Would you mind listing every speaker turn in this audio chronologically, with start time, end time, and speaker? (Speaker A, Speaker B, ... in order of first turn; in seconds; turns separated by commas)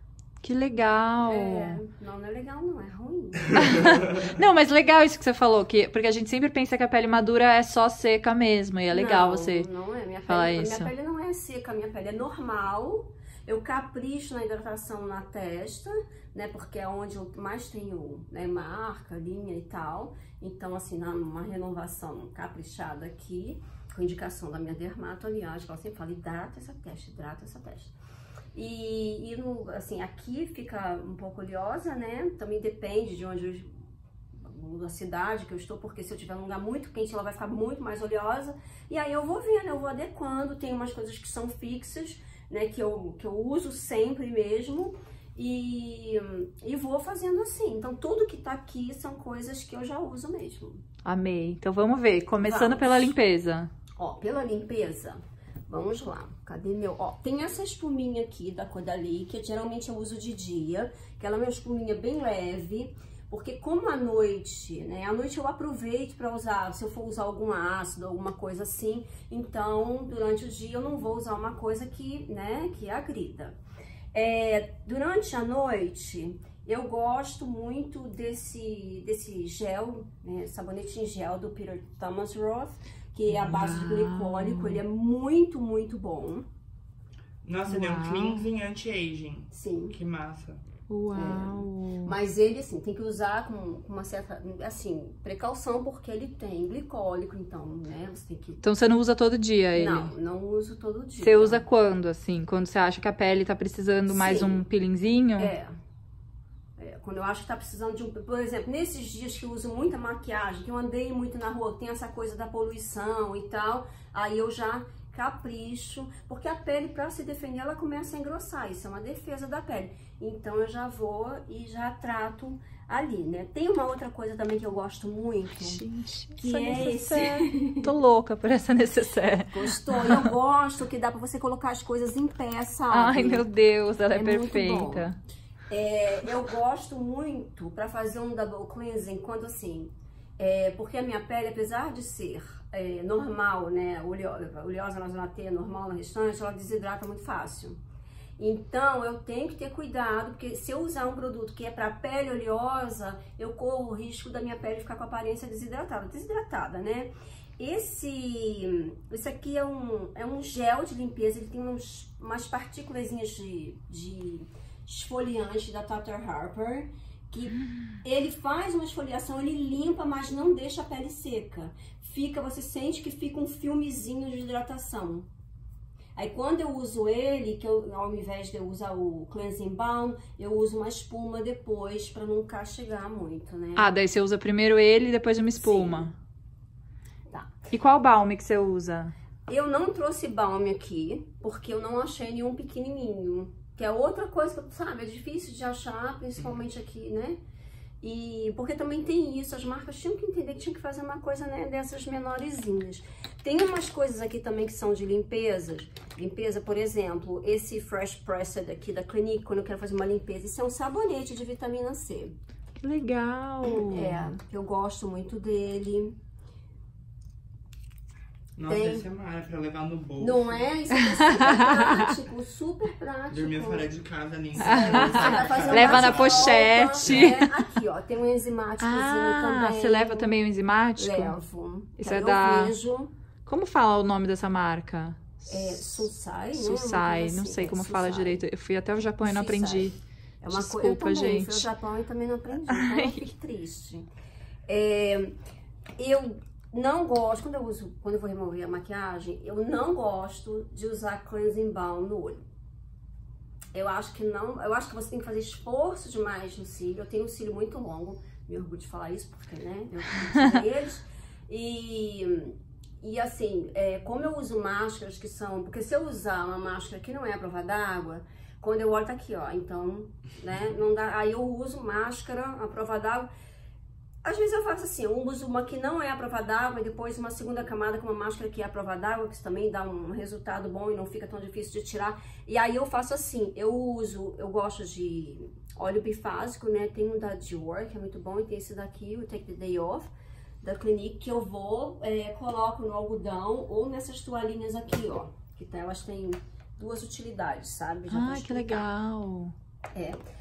Speaker A: 0.4-1.8, Speaker B: 1.2-4.0, Speaker A: 3.5-9.7, Speaker B: 8.9-27.9, Speaker A: 10.3-10.9, Speaker B: 28.5-33.7, Speaker B: 34.4-50.8, Speaker A: 51.0-53.7, Speaker B: 52.4-53.1, Speaker B: 54.0-73.6, Speaker B: 74.1-86.5, Speaker A: 83.3-84.8, Speaker C: 87.4-90.6, Speaker A: 87.7-88.5, Speaker B: 89.5-90.0, Speaker A: 90.9-92.1, Speaker B: 91.1-98.6, Speaker A: 98.6-100.1, Speaker B: 99.8-101.6, Speaker A: 101.2-105.5, Speaker B: 104.1-104.6, Speaker B: 105.4-105.7, Speaker B: 106.8-125.8, Speaker A: 125.6-130.3, Speaker B: 126.4-127.9, Speaker B: 129.5-133.5, Speaker A: 132.9-135.2, Speaker B: 134.1-135.1, Speaker B: 135.7-147.8, Speaker B: 148.4-175.3, Speaker A: 167.7-168.0, Speaker B: 176.2-183.9, Speaker A: 183.8-186.1, Speaker B: 185.6-186.1, Speaker B: 187.3-187.6, Speaker A: 187.7-189.1, Speaker B: 189.5-197.4, Speaker B: 198.0-212.3, Speaker A: 212.8-214.3, Speaker B: 213.7-216.2, Speaker C: 218.6-220.7, Speaker B: 218.7-219.0, Speaker B: 220.2-223.9, Speaker A: 221.0-222.1, Speaker C: 223.3-227.4, Speaker B: 224.6-230.3, Speaker A: 224.6-227.5, Speaker A: 228.8-231.3, Speaker B: 231.0-233.1, Speaker A: 232.0-232.7, Speaker A: 233.4-240.0, Speaker B: 235.5-238.4, Speaker B: 239.2-244.1, Speaker A: 240.5-241.7, Speaker A: 242.7-243.2, Speaker B: 244.7-245.4, Speaker B: 246.0-252.4, Speaker B: 253.7-273.3, Speaker B: 274.2-290.1, Speaker B: 290.6-298.9, Speaker A: 298.1-299.5